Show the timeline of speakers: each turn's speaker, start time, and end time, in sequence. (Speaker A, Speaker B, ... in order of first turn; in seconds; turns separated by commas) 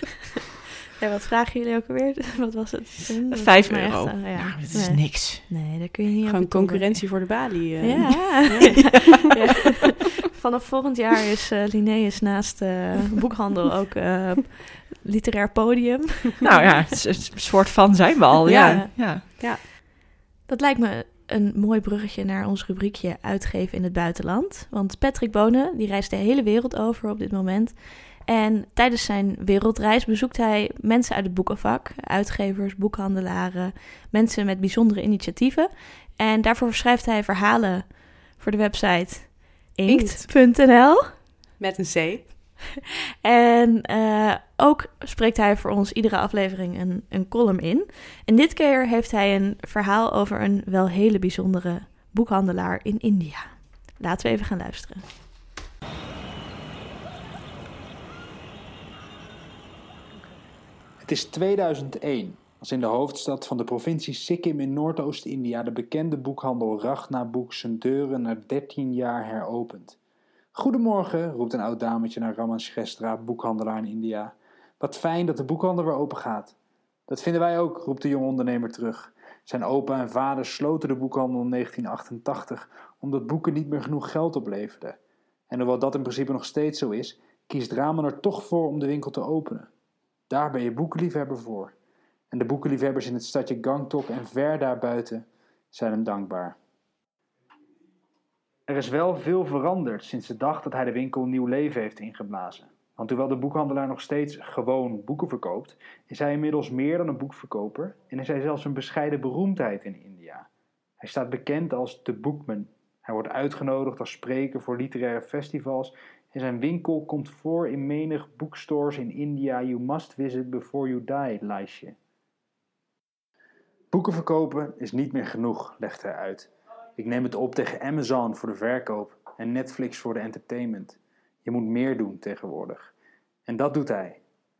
Speaker A: 1.0-7.2, Speaker B: 3.3-5.4, Speaker C: 6.2-9.1, Speaker A: 7.8-16.6, Speaker B: 8.6-9.1, Speaker B: 16.4-19.2, Speaker C: 18.5-19.6, Speaker A: 18.6-18.9, Speaker A: 20.5-41.2, Speaker C: 39.9-40.3, Speaker C: 41.6-42.3, Speaker A: 43.2-55.1, Speaker D: 61.0-70.0, Speaker D: 70.5-76.5, Speaker D: 77.1-85.0, Speaker D: 85.5-89.7, Speaker D: 90.3-91.7, Speaker D: 92.3-96.5, Speaker D: 98.7-110.5, Speaker D: 111.0-121.9, Speaker D: 123.9-132.9, Speaker D: 133.4-134.2